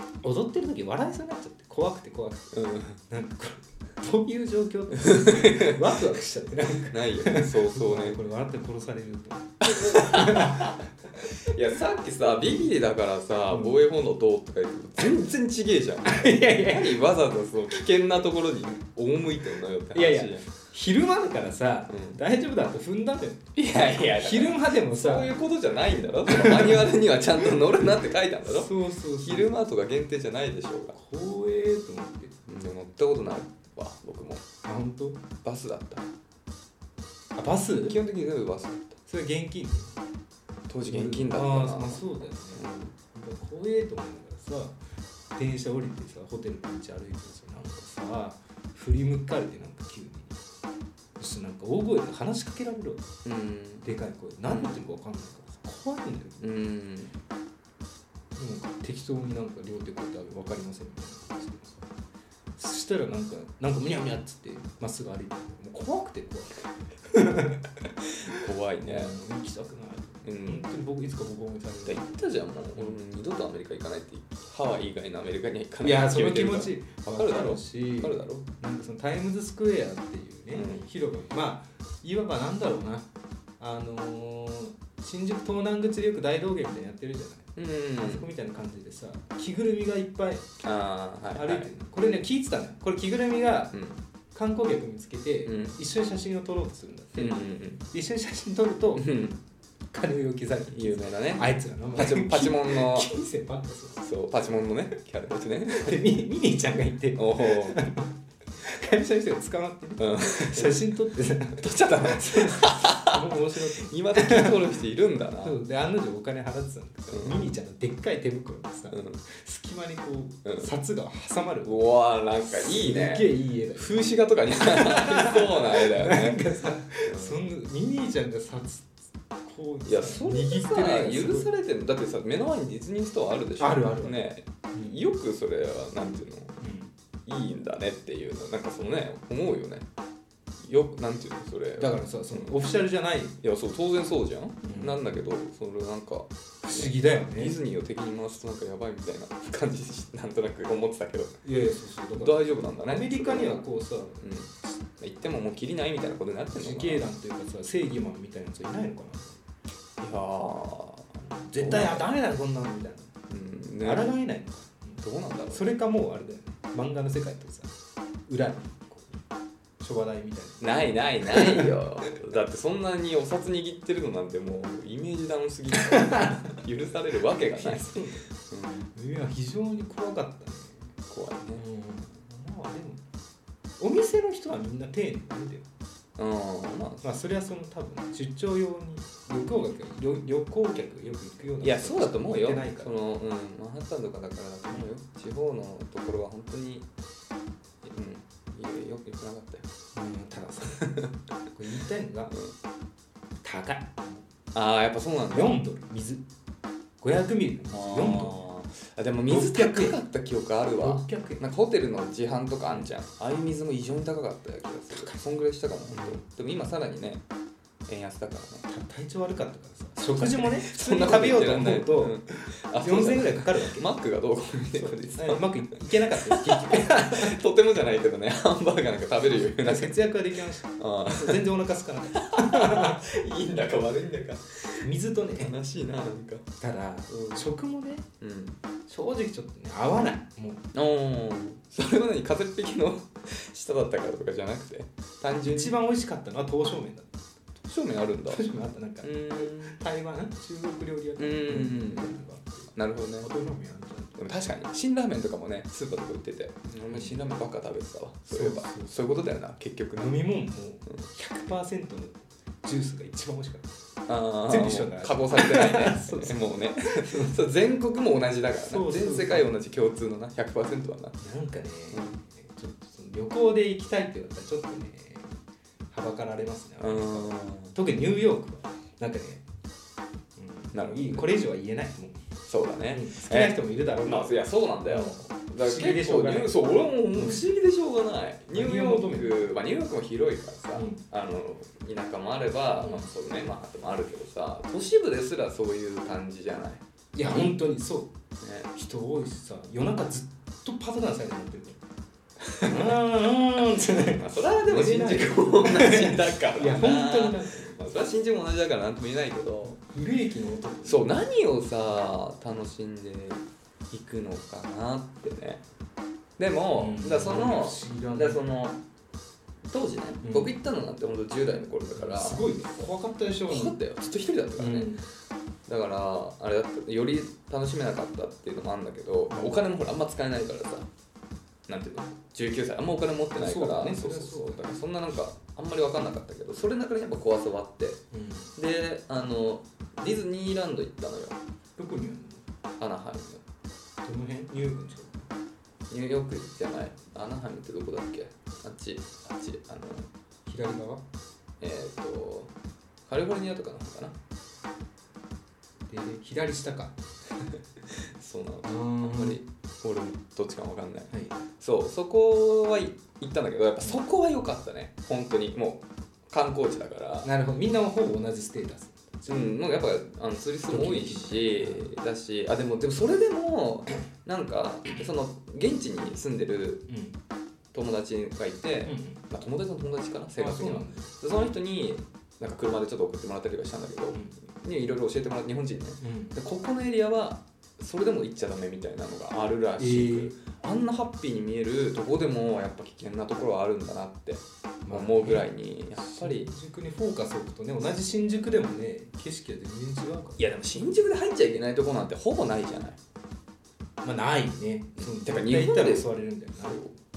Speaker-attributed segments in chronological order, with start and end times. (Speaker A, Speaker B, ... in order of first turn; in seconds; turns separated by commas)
Speaker A: 0.2-10.8, Speaker B: 2.5-3.0, Speaker B: 5.1-6.0, Speaker B: 6.8-8.2, Speaker B: 9.7-20.4, Speaker A: 13.5-13.8, Speaker A: 16.0-17.1, Speaker A: 19.9-25.3, Speaker B: 21.9-22.2, Speaker B: 23.6-30.9, Speaker A: 26.3-26.9, Speaker A: 28.4-29.5, Speaker A: 30.9-32.4, Speaker B: 32.5-34.4, Speaker A: 34.6-35.2, Speaker B: 35.4-36.1, Speaker A: 37.4-38.0, Speaker B: 37.8-39.0, Speaker A: 39.0-39.9, Speaker B: 40.7-42.9, Speaker A: 40.9-44.8, Speaker A: 45.3-50.3, Speaker A: 51.2-53.1, Speaker B: 53.2-53.9, Speaker A: 53.8-56.4, Speaker B: 54.5-54.8, Speaker B: 56.4-57.1, Speaker A: 58.4-61.8, Speaker A: 62.6-67.7, Speaker B: 68.2-69.2, Speaker A: 68.3-72.2, Speaker B: 70.2-70.7, Speaker B: 71.8-78.5, Speaker A: 75.8-83.1, Speaker B: 80.5-80.8, Speaker A: 83.6-90.5, Speaker B: 87.5-88.2, Speaker B: 90.6-91.7, Speaker A: 91.3-93.8, Speaker B: 93.7-94.0, Speaker A: 94.3-99.1, Speaker B: 95.5-95.8, Speaker B: 97.2-97.8, Speaker B: 98.9-99.4, Speaker A: 99.9-104.0, Speaker B: 100.7-103.1, Speaker B: 104.0-106.0, Speaker A: 105.7-114.8, Speaker B: 107.1-107.8, Speaker B: 110.0-110.8, Speaker B: 111.6-113.2, Speaker B: 113.7-115.6, Speaker A: 115.4-121.9, Speaker B: 117.1-117.5, Speaker B: 118.9-119.2, Speaker B: 121.6-126.4, Speaker A: 122.5-128.9, Speaker B: 127.0-127.4, Speaker A: 129.4-131.5, Speaker B: 129.8-136.5, Speaker A: 133.6-134.2, Speaker A: 136.6-136.9, Speaker B: 137.2-139.9, Speaker B: 140.6-142.5, Speaker A: 141.8-143.4, Speaker B: 143.4-151.3, Speaker A: 144.6-145.1, Speaker A: 146.6-147.6, Speaker A: 151.4-154.2, Speaker B: 152.2-153.7, Speaker B: 154.2-157.1, Speaker A: 156.5-159.4, Speaker B: 160.0-162.1, Speaker A: 161.4-163.1, Speaker B: 163.3-164.1, Speaker A: 163.8-167.7, Speaker B: 165.0-165.7, Speaker A: 168.3-169.2, Speaker A: 169.8-172.2, Speaker B: 170.6-178.9, Speaker A: 175.7-176.6, Speaker A: 177.5-178.3, Speaker A: 178.9-180.8, Speaker B: 181.1-181.6, Speaker A: 181.6-183.0, Speaker A: 183.8-185.7, Speaker B: 186.2-187.1, Speaker A: 187.0-193.0, Speaker B: 191.6-196.9, Speaker B: 197.8-199.7, Speaker A: 199.9-202.4, Speaker B: 200.7-201.1, Speaker A: 203.4-204.2, Speaker B: 204.5-205.6, Speaker A: 205.3-206.2, Speaker A: 207.0-208.4, Speaker B: 207.7-217.2, Speaker A: 209.3-210.0, Speaker A: 210.8-211.5, Speaker A: 214.9-215.2, Speaker A: 215.9-216.2, Speaker B: 217.9-218.6, Speaker A: 218.7-223.9, Speaker B: 220.0-230.0, Speaker A: 224.8-227.4, Speaker A: 229.5-233.0, Speaker B: 230.7-231.5, Speaker B: 232.1-236.4, Speaker A: 234.8-235.6, Speaker A: 236.6-238.1, Speaker B: 238.2-238.6, Speaker A: 238.9-240.7, Speaker B: 240.7-245.8, Speaker A: 245.4-247.2, Speaker B: 247.6-248.4, Speaker A: 248.3-254.2, Speaker B: 249.0-249.8, Speaker B: 251.2-252.1, Speaker B: 252.7-253.3, Speaker B: 254.2-260.2, Speaker A: 256.9-257.2, Speaker A: 258.3-259.0, Speaker A: 259.9-263.7, Speaker B: 264.1-271.2, Speaker A: 264.5-267.4, Speaker A: 268.6-269.5, Speaker A: 271.2-275.3, Speaker B: 271.9-272.2, Speaker A: 275.9-279.4, Speaker B: 276.8-277.7, Speaker A: 280.4-282.2, Speaker B: 280.7-281.3, Speaker B: 282.4-296.8, Speaker A: 282.9-286.6, Speaker A: 287.1-287.4, Speaker A: 288.5-289.5, Speaker A: 290.7-291.0, Speaker A: 292.8-293.1, Speaker A: 297.1-298.1, Speaker B: 298.4-298.7, Speaker A: 298.7-301.8, Speaker B: 302.6-302.9, Speaker A: 302.6-307.8, Speaker B: 304.1-309.8, Speaker A: 309.6-311.2, Speaker B: 310.8-315.6, Speaker B: 316.4-318.8, Speaker A: 316.8-318.4, Speaker B: 319.6-322.5, Speaker A: 320.2-320.6, Speaker A: 321.9-323.8, Speaker B: 323.5-324.9, Speaker A: 324.6-325.1, Speaker B: 325.7-330.9, Speaker A: 329.3-329.6, Speaker B: 331.7-338.0, Speaker A: 333.4-334.7, Speaker A: 338.1-338.5, Speaker B: 338.6-341.4, Speaker A: 341.8-342.4, Speaker B: 342.8-343.4, Speaker A: 344.0-345.3, Speaker B: 345.9-350.1, Speaker A: 350.4-351.0, Speaker B: 351.6-352.5, Speaker B: 353.1-354.2, Speaker A: 355.9-357.0, Speaker B: 357.9-367.3, Speaker A: 358.6-359.4, Speaker A: 361.1-361.4, Speaker A: 367.2-369.5, Speaker B: 369.3-376.9, Speaker A: 370.7-371.9, Speaker A: 376.9-377.2, Speaker B: 377.7-396.5, Speaker A: 378.8-379.2, Speaker A: 380.4-381.1, Speaker A: 386.0-386.4, Speaker A: 389.8-390.4, Speaker A: 394.9-400.4, Speaker B: 400.4-403.0, Speaker A: 404.0-406.9, Speaker B: 405.0-406.9